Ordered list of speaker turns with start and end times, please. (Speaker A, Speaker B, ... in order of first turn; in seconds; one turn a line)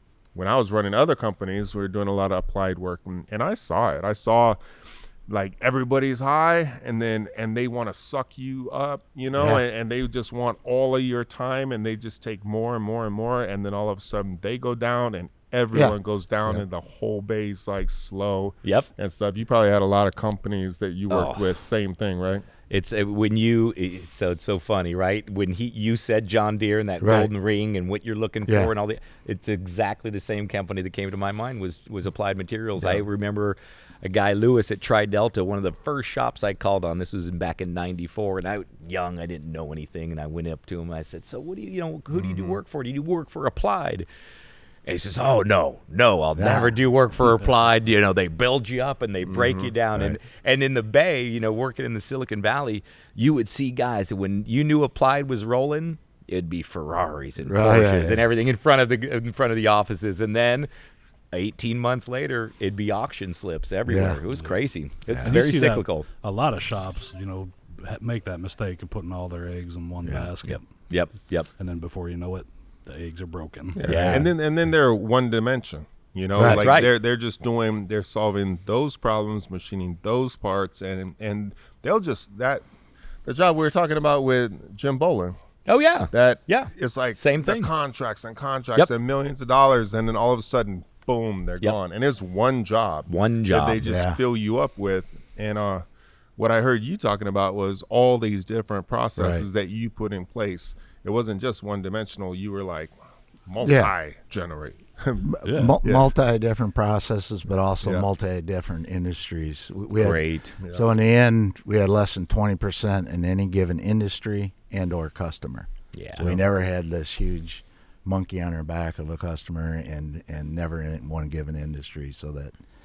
Speaker A: 0.3-4.6
Speaker A: 5.3-22.4
Speaker B: 9.3-9.6
Speaker C: 21.1-21.6
Speaker C: 22.7-44.1
Speaker B: 27.0-27.3
Speaker B: 28.4-28.7
Speaker B: 32.8-33.0
Speaker A: 42.1-42.6
Speaker C: 44.9-60.7
Speaker B: 46.4-46.8
Speaker A: 49.2-49.7
Speaker B: 57.4-58.2
Speaker C: 61.3-66.1
Speaker B: 63.9-64.2
Speaker B: 65.1-65.4
Speaker D: 65.2-70.6
Speaker B: 70.0-70.3
Speaker C: 70.5-71.5
Speaker D: 71.6-73.9
Speaker A: 73.7-82.6
Speaker C: 73.8-74.3
Speaker B: 73.9-74.2
Speaker B: 76.3-76.6
Speaker C: 76.4-76.9
Speaker A: 83.2-85.4
Speaker C: 85.7-87.7
Speaker A: 86.1-95.8
Speaker C: 93.1-93.8
Speaker B: 93.8-94.2
Speaker A: 96.4-102.9
Speaker B: 99.2-99.5
Speaker A: 103.5-106.1
Speaker B: 103.6-103.9
Speaker B: 105.2-122.5
Speaker D: 105.4-105.8
Speaker C: 110.0-110.5
Speaker A: 110.6-110.9
Speaker C: 115.9-116.4